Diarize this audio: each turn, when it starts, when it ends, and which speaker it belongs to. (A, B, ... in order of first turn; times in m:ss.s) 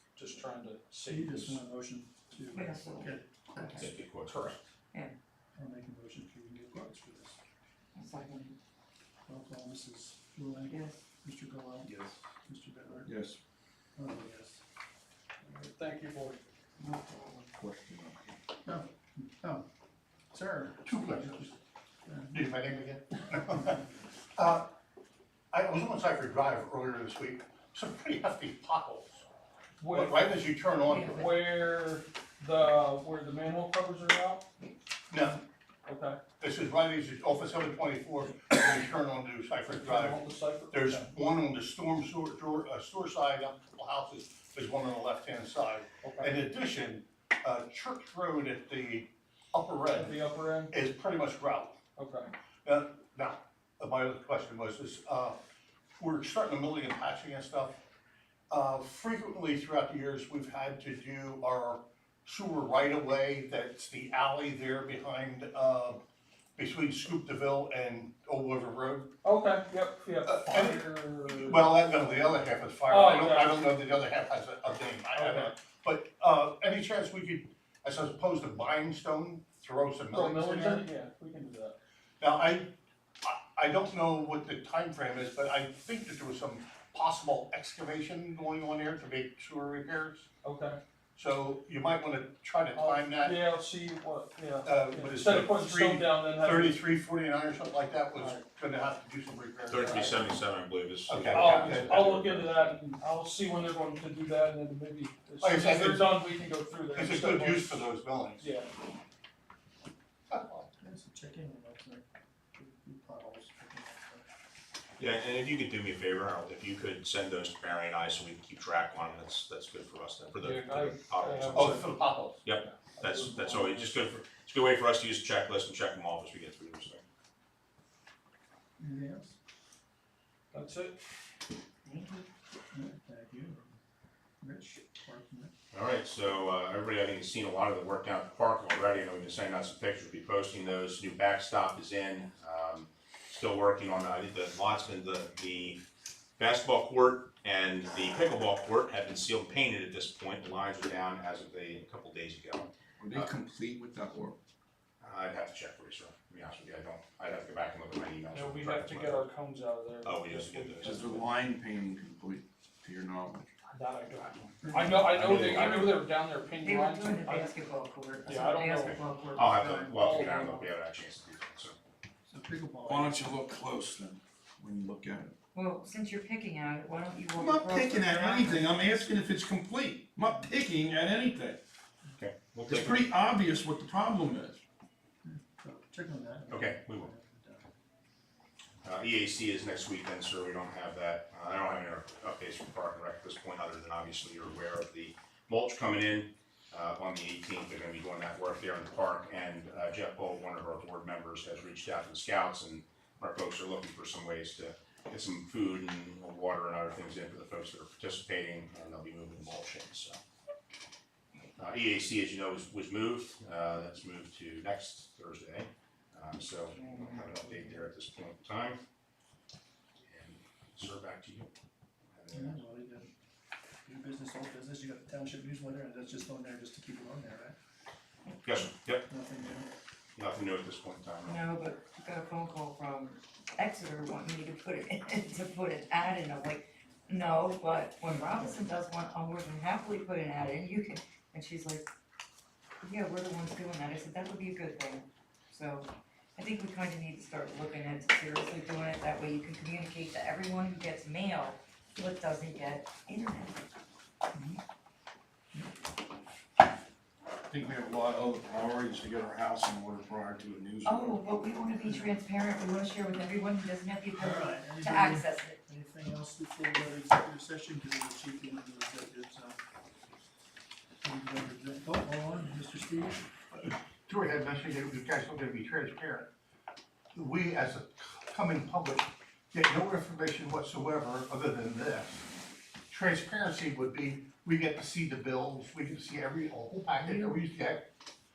0:00.2-0:01.6 A
0:01.1-0:03.9 B
0:02.5-0:03.9 C
0:03.7-0:04.6 D
0:04.3-0:04.6 A
0:05.6-0:07.4 B
0:08.0-0:08.6 C
0:09.3-0:11.9 B
0:10.7-0:11.0 C
0:12.4-0:13.1 B
0:13.0-0:13.4 E
0:14.0-0:14.6 B
0:15.4-0:16.4 A
0:16.8-0:17.5 C
0:17.5-0:18.4 E
0:18.6-0:19.7 B
0:20.3-0:22.5 B
0:20.8-0:21.5 F
0:22.3-0:23.8 F
0:24.4-0:24.7 F
0:25.5-0:29.2 F
0:29.8-0:30.4 A
0:29.9-0:31.2 F
0:30.9-0:34.5 A
0:30.9-0:31.2 C
0:35.1-0:35.4 F
0:35.9-0:36.2 A
0:36.4-0:50.2 F
0:39.7-0:41.1 A
0:46.0-0:46.3 A
0:49.9-0:50.7 A
0:50.7-0:51.8 F
0:52.0-0:52.3 A
0:52.6-0:55.4 F
0:56.0-0:57.8 F
0:58.5-1:06.0 F
1:06.6-1:09.1 F
1:09.2-1:13.7 A
1:10.3-1:20.8 F
1:15.2-1:15.5 A
1:20.1-1:21.8 A
1:22.2-1:22.7 F
1:23.2-1:30.3 F
1:30.4-1:30.8 A
1:31.2-1:33.4 F
1:32.8-1:36.8 A
1:34.6-1:40.2 F
1:38.2-1:38.4 A
1:39.7-1:42.6 D
1:39.8-1:40.1 A
1:41.1-1:42.2 F
1:41.3-1:47.8 A
1:45.4-1:46.2 F
1:46.9-1:48.5 F
1:48.4-1:48.7 A
1:50.3-1:50.7 F
1:50.8-1:52.0 B
1:52.6-1:54.3 B
1:55.0-2:01.8 D
2:00.4-2:01.8 A
2:01.5-2:02.4 F
2:02.4-2:07.0 D
2:03.0-2:03.9 A
2:08.8-2:09.4 B
2:10.5-2:11.0 A
2:11.9-2:13.8 B
2:14.4-2:15.5 B
2:15.7-2:25.8 D
2:26.4-2:33.3 D
2:33.0-2:34.4 E
2:35.0-2:39.2 D
2:38.3-2:41.3 A
2:40.0-2:41.1 D
2:40.8-2:43.5 E
2:43.7-2:47.6 A
2:44.6-2:45.3 B
2:45.1-2:45.9 E
2:45.2-2:45.9 D
2:45.6-2:45.9 C
2:46.6-2:50.7 C
2:48.3-2:50.5 A
2:48.8-2:51.8 D
2:52.3-2:53.4 B
2:52.9-2:55.4 E
2:55.5-2:58.7 C
2:57.4-3:01.6 E
3:02.2-3:03.1 D
3:02.6-3:04.6 E
3:05.2-3:07.7 B
3:06.5-3:07.1 D
3:08.8-3:30.2 D
3:31.6-3:38.8 D
3:36.8-3:37.3 C
3:37.4-3:37.8 B
3:40.1-3:41.5 D
3:42.1-3:42.6 D
3:42.3-3:43.1 B
3:43.9-3:47.6 B
3:48.4-3:49.1 D
3:49.1-3:49.7 B
3:50.2-3:51.4 D
3:51.2-4:01.9 C
3:58.1-3:58.6 B
4:02.8-4:13.6 C
4:14.3-4:14.6 B
4:17.5-4:21.2 E
4:20.8-4:25.6 C
4:21.8-4:22.2 B
4:24.1-4:29.6 B
4:31.0-4:33.2 B
4:33.5-4:36.3 F
4:37.2-4:42.3 F
4:42.9-4:47.8 F
4:47.0-4:47.4 C